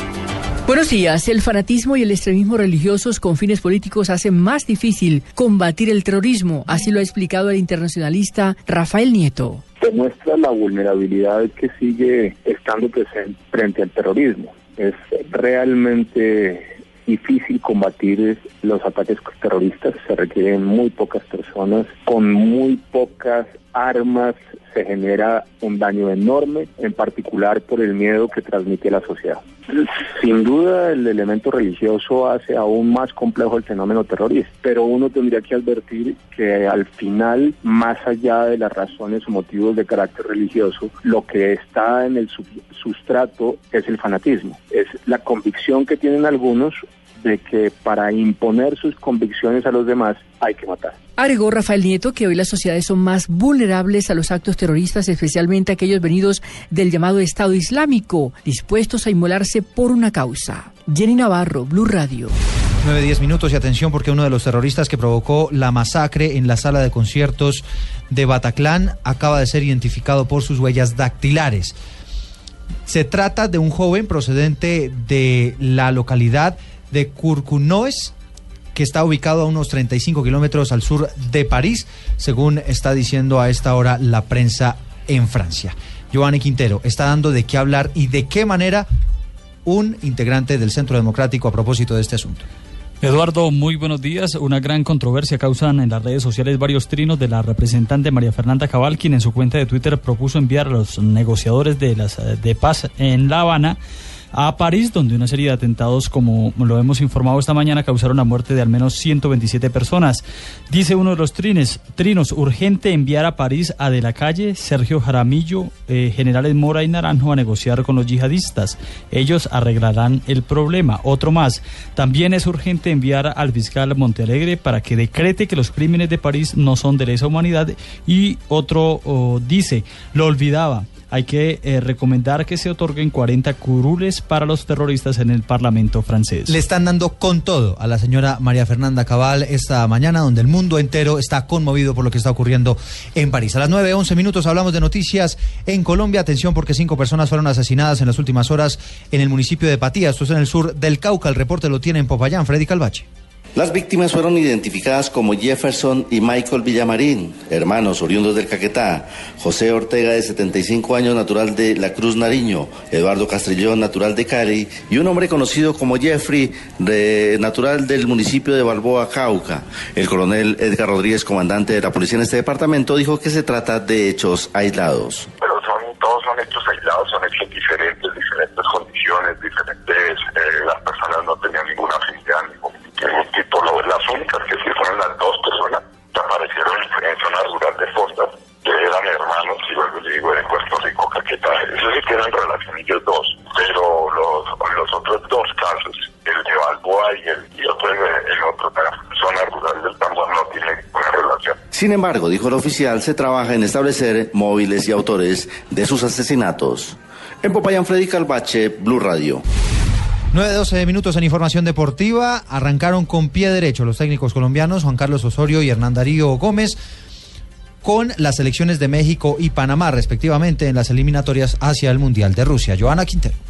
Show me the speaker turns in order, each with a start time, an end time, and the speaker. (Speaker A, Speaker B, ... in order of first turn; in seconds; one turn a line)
Speaker A: 0.7-9.6
Speaker B: 9.8-50.9
Speaker A: 51.2-62.3
Speaker C: 62.8-71.7
Speaker C: 72.9-78.1
Speaker C: 78.7-88.8
Speaker C: 89.6-92.5
Speaker D: 93.0-103.8
Speaker D: 104.3-136.5
Speaker C: 136.5-153.0
Speaker E: 153.6-175.3
Speaker F: 175.4-201.6
Speaker E: 201.7-209.4
Speaker C: 210.3-216.8
Speaker C: 217.8-223.3